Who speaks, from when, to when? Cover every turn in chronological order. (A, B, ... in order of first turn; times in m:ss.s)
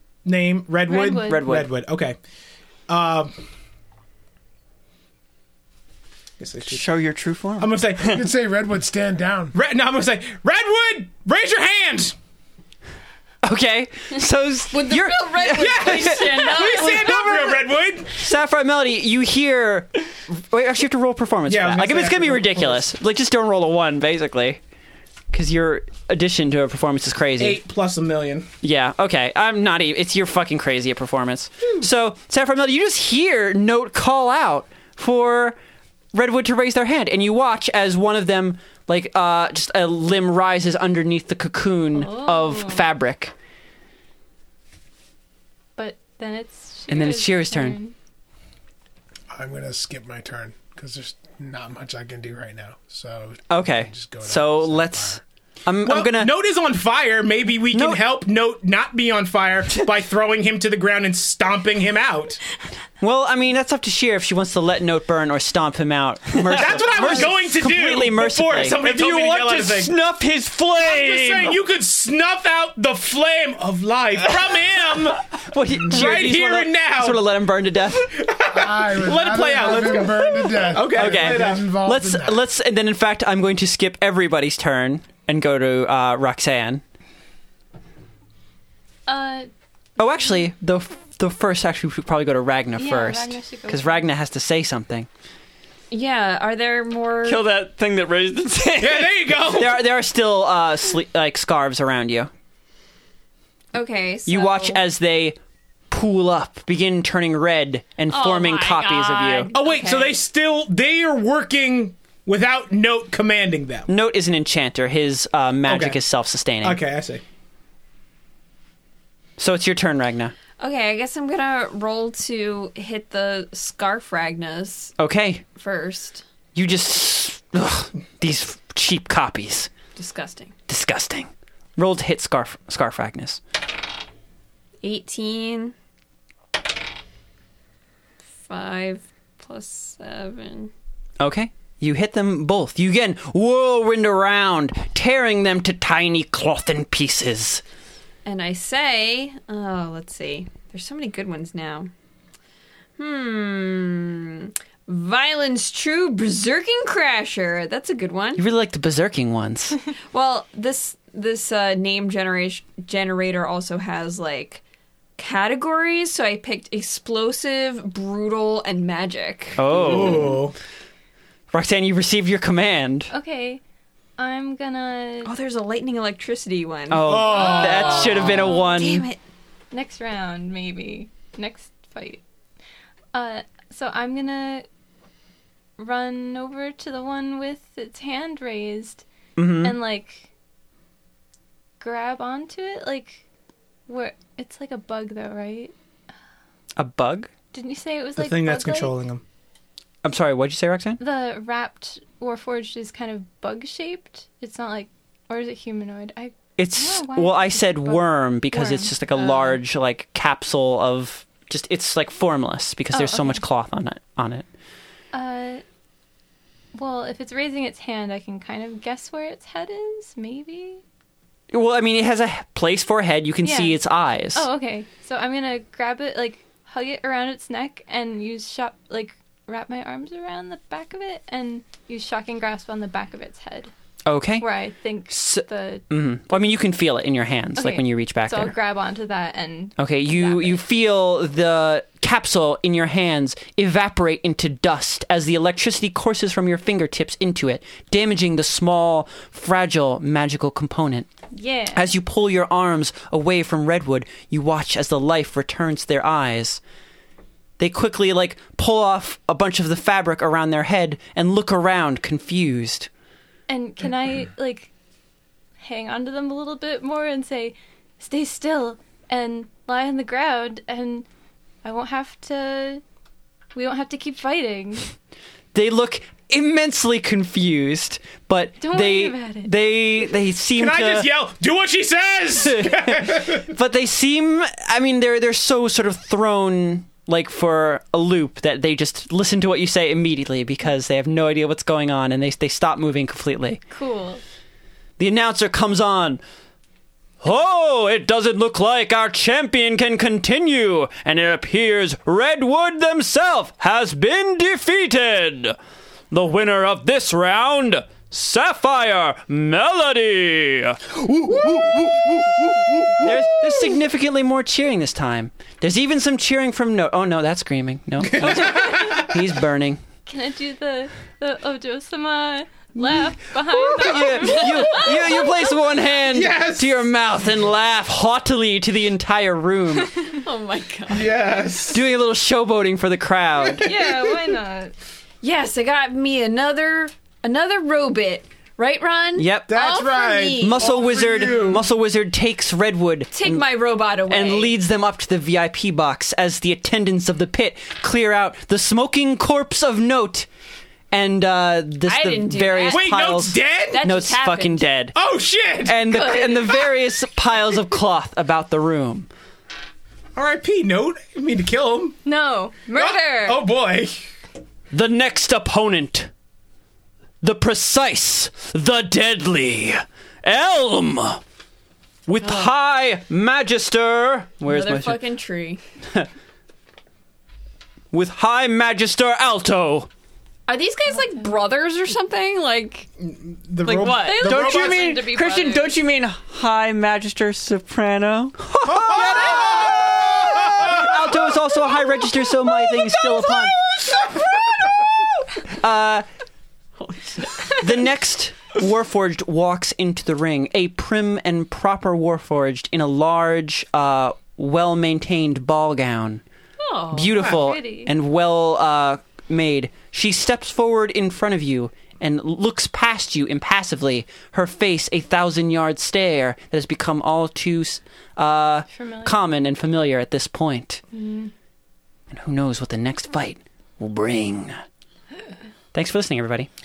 0:00.2-0:02.2 A
0:00.9-0:01.5 B
0:01.2-0:01.7 C
0:02.9-0:03.3 A
0:06.4-0:06.8 A
0:06.7-0:08.2 D
0:07.6-0:08.2 A
0:08.0-0:09.5 E
0:09.5-0:12.1 A
0:13.4-0:17.5 C
0:14.7-0:17.4 F
0:15.6-0:18.1 A
0:18.1-0:24.6 C
0:21.5-0:22.8 A
0:25.3-0:27.6 C
0:27.4-0:28.5 A
0:28.6-0:35.6 C
0:36.1-0:43.3 C
0:41.9-0:42.9 B
0:45.8-0:47.9 B
0:46.9-0:47.8 C
0:49.3-0:55.2 E
0:53.5-0:56.3 C
0:55.8-1:02.4 A
0:57.7-0:58.0 C
1:03.0-1:08.8 C
1:06.4-1:07.3 D
1:06.5-1:09.9 A
1:08.8-1:11.6 D
1:10.8-1:17.3 A
1:15.4-1:18.1 C
1:18.0-1:21.7 A
1:18.5-1:22.4 E
1:19.6-1:20.8 D
1:20.9-1:26.8 C
1:29.1-1:29.5 B
1:30.0-1:35.1 C
1:32.8-1:34.1 B
1:35.9-1:37.4 F
1:37.2-1:39.6 D
1:38.8-1:39.8 A
1:39.5-1:42.3 C
1:43.7-1:44.8 F
1:44.2-1:45.4 C
1:45.9-1:49.5 C
1:48.1-1:50.2 F
1:49.5-1:53.9 A
1:53.9-1:56.8 C
1:55.6-1:56.0 A
1:56.6-1:57.2 A
1:59.4-2:00.3 C
2:00.6-2:04.9 F
2:05.0-2:05.4 C
2:05.5-2:06.2 F
2:06.5-2:09.7 C
2:10.0-2:10.5 F
2:10.7-2:13.4 C
2:14.8-2:15.7 F
2:18.4-2:20.7 F
2:21.2-2:27.6 C
2:28.2-2:31.9 F
2:33.0-2:38.4 F
2:38.4-2:39.8 C
2:40.1-2:44.6 F
2:45.2-2:50.2 F
2:49.6-2:50.4 C
2:49.7-2:50.5 A
2:51.5-2:53.1 C
2:53.1-2:53.6 B
2:54.2-2:55.3 B
2:55.2-2:59.2 F
2:56.9-2:59.0 C
2:57.1-2:58.5 A
2:57.5-2:58.2 B
2:59.7-3:02.2 B
3:03.1-3:04.7 B
3:05.8-3:09.0 B
3:09.4-3:09.8 C
3:09.6-3:10.3 B
3:11.8-3:13.2 B
3:13.9-3:15.7 B
3:16.8-3:17.3 C
3:17.5-3:18.9 B
3:18.2-3:19.2 A
3:20.0-3:21.0 C
3:21.0-3:29.6 B
3:26.6-3:34.4 C
3:32.9-3:33.4 B
3:35.1-3:35.6 B
3:36.7-3:40.8 B
3:41.5-3:44.5 C
3:43.4-3:43.8 B
3:44.3-3:53.7 B
3:54.0-3:54.5 C
3:54.4-3:55.8 B
3:55.1-3:58.5 C
3:57.5-4:00.6 B
3:59.8-4:11.1 C
4:11.3-4:11.9 B
4:11.7-4:16.6 C
4:17.6-4:22.9 C
4:23.5-4:24.7 B
4:25.6-4:31.1 B
4:31.6-4:32.8 B
4:33.5-4:34.9 B
4:35.5-4:41.1 C
4:38.6-4:39.6 B
4:40.6-4:43.5 A
4:42.4-4:53.6 C
4:53.7-4:54.2 B
4:55.0-4:56.2 C
4:57.2-5:05.6 C
5:06.1-5:10.8 C
5:11.0-5:13.1 A
5:13.0-5:19.8 C
5:18.0-5:19.2 A
5:18.6-5:18.8 B
5:20.0-5:26.0 B
5:23.8-5:29.9 C
5:24.2-5:24.6 F
5:26.1-5:26.9 A
5:30.2-5:31.5 F
5:30.9-5:31.8 A
5:31.7-5:33.7 C
5:33.6-5:34.7 B
5:33.6-5:34.3 A
5:35.2-5:41.6 F
5:39.2-5:39.5 C
5:39.5-5:41.6 A
5:40.4-5:43.4 C
5:43.1-5:44.5 F
5:44.1-5:50.3 C
5:50.9-5:54.9 C
5:51.8-5:52.9 F
5:52.7-5:53.8 A
5:53.7-5:54.7 F
5:54.9-5:55.8 A
5:55.6-5:59.1 C
5:55.8-5:56.6 B
6:00.1-6:02.0 A
6:02.0-6:03.4 B
6:02.8-6:04.0 A
6:04.7-6:06.1 C
6:07.2-6:11.2 C
6:12.1-6:15.0 C
6:12.2-6:12.5 F
6:14.4-6:15.6 F
6:17.9-6:19.9 C
6:20.5-6:22.9 F
6:23.0-6:25.0 A
6:23.6-6:28.4 D
6:23.7-6:24.3 F
6:23.9-6:25.8 B
6:28.4-6:33.6 C
6:28.6-6:31.1 A
6:33.8-6:34.2 F
6:35.6-6:36.0 C
6:36.8-6:37.6 F
6:37.6-6:46.2 C
6:46.6-6:47.3 F
6:46.9-7:00.8 C
6:47.1-6:47.9 B
6:58.7-6:59.2 B
7:00.9-7:01.3 B
7:02.1-7:04.6 C
7:05.7-7:06.5 C